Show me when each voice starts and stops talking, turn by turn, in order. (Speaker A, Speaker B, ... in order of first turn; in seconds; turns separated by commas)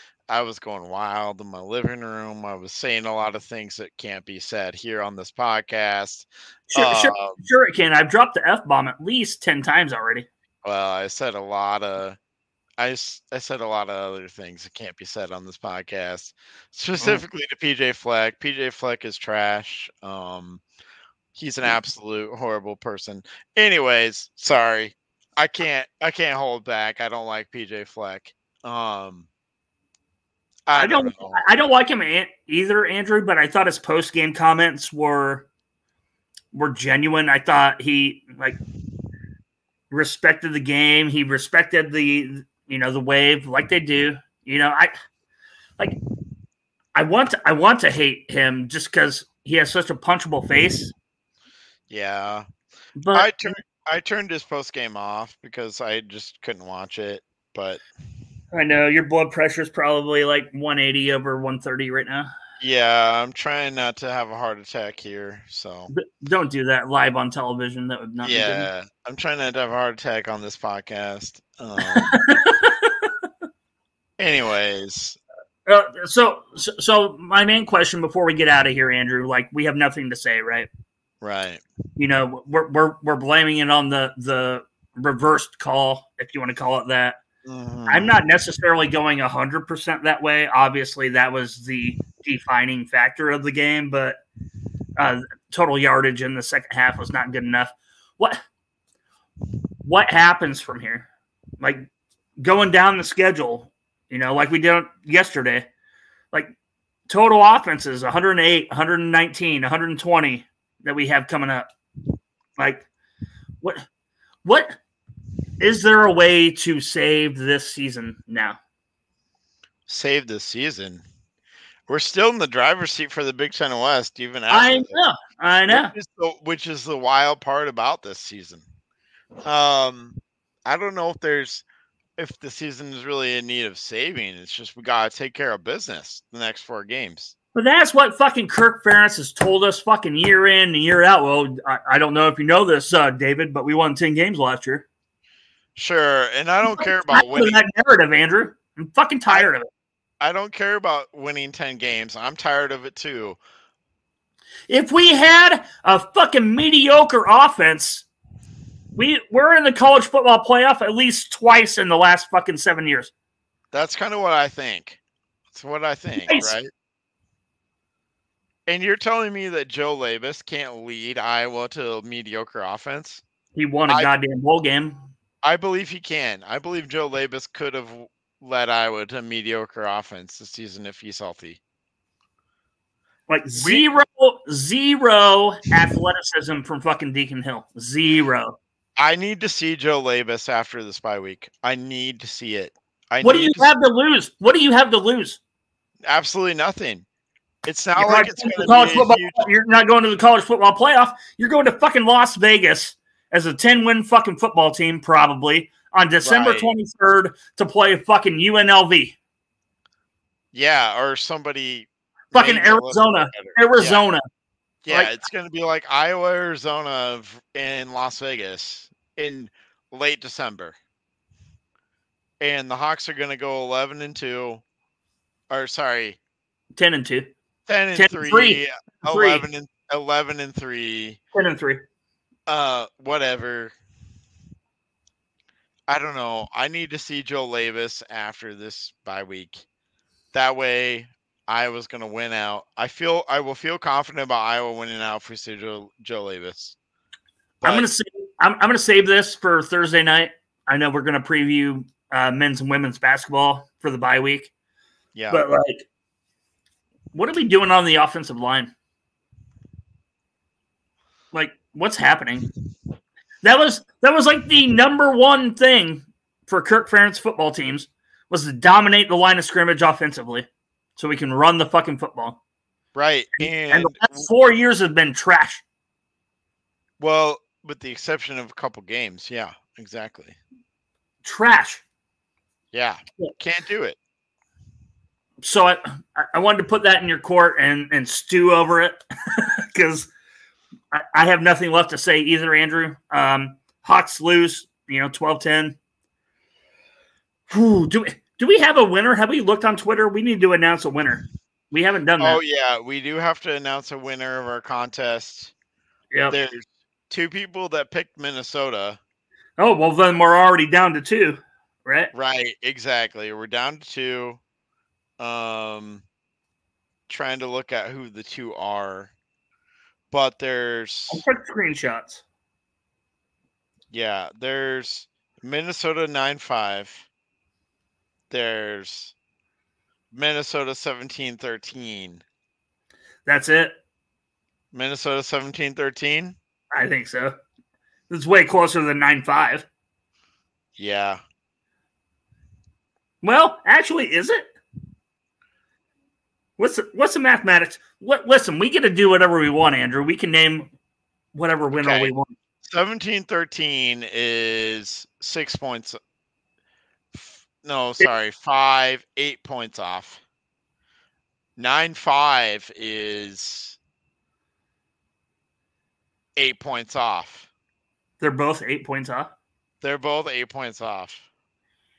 Speaker A: 0.3-7.4, Speaker B: 6.7-10.3, Speaker A: 10.6-12.2, Speaker A: 12.8-20.6, Speaker B: 17.0-17.2, Speaker A: 21.3-29.3, Speaker A: 30.7-31.4, Speaker B: 30.8-35.5, Speaker B: 36.5-38.6, Speaker B: 39.9-44.9, Speaker B: 47.0-50.9, Speaker A: 51.9-52.4, Speaker B: 53.0-53.5, Speaker A: 53.1-57.8, Speaker B: 58.5-62.3, Speaker A: 62.6-65.9, Speaker B: 65.9-68.7, Speaker A: 68.2-72.1, Speaker B: 71.9-72.9, Speaker A: 74.2-75.2, Speaker B: 75.7-80.7, Speaker A: 81.2-81.6, Speaker B: 82.0-87.2, Speaker A: 87.4-88.2, Speaker B: 87.9-94.2, Speaker B: 95.0-98.4, Speaker B: 99.8-101.1, Speaker B: 101.6-101.8, Speaker B: 102.4-105.7, Speaker B: 107.1-111.7, Speaker B: 112.6-112.9, Speaker B: 114.4-114.8, Speaker B: 115.6-118.6, Speaker A: 119.9-121.0, Speaker A: 121.9-125.0, Speaker B: 124.5-125.9, Speaker A: 125.7-128.7, Speaker A: 129.4-131.6, Speaker A: 132.2-137.3, Speaker B: 137.5-144.8, Speaker A: 145.8-147.6, Speaker B: 146.6-149.7, Speaker A: 150.2-153.4, Speaker B: 154.7-158.1, Speaker B: 158.9-163.1, Speaker A: 163.7-165.0, Speaker A: 165.5-166.7, Speaker B: 166.2-166.5, Speaker A: 168.7-173.2, Speaker B: 173.5-175.0, Speaker A: 175.4-181.6, Speaker B: 183.3-188.6, Speaker A: 183.5-183.8, Speaker A: 189.0-193.7, Speaker B: 193.2-195.4, Speaker A: 196.1-197.1, Speaker A: 197.6-199.5, Speaker B: 197.9-209.2, Speaker A: 206.2-206.7, Speaker A: 210.5-214.0, Speaker B: 212.3-214.2, Speaker A: 214.8-220.8, Speaker A: 222.4-224.6, Speaker A: 225.5-226.2, Speaker B: 226.8-227.3, Speaker A: 227.7-231.2, Speaker B: 227.9-229.4, Speaker B: 231.3-231.8, Speaker A: 232.5-233.7, Speaker A: 235.9-239.6, Speaker A: 240.3-246.8, Speaker A: 247.6-247.9, Speaker B: 247.6-254.5, Speaker A: 255.1-255.4, Speaker B: 255.3-255.8, Speaker B: 257.1-258.7, Speaker B: 261.3-262.5, Speaker B: 263.4-272.4, Speaker A: 272.9-274.3, Speaker B: 273.4-275.6, Speaker A: 277.0-280.4, Speaker B: 281.2-281.8, Speaker A: 282.7-284.0, Speaker B: 285.4-290.1, Speaker B: 290.9-295.8, Speaker B: 297.5-302.4, Speaker A: 302.2-305.5, Speaker A: 306.3-309.0, Speaker B: 309.6-312.1, Speaker A: 312.1-314.4, Speaker A: 315.2-316.0, Speaker A: 317.1-319.1, Speaker A: 320.1-321.2, Speaker B: 321.1-322.2, Speaker A: 323.9-327.1, Speaker A: 328.3-329.1, Speaker A: 330.1-332.2, Speaker B: 333.2-333.8, Speaker A: 334.7-336.4, Speaker B: 336.7-337.4, Speaker B: 338.1-339.7, Speaker A: 340.8-341.2, Speaker B: 343.2-344.5, Speaker B: 346.6-350.7, Speaker B: 351.3-352.3, Speaker A: 351.7-352.1, Speaker A: 352.6-356.0, Speaker A: 357.1-360.2, Speaker A: 361.6-363.8, Speaker A: 366.4-367.5, Speaker B: 368.2-369.3, Speaker A: 369.8-371.3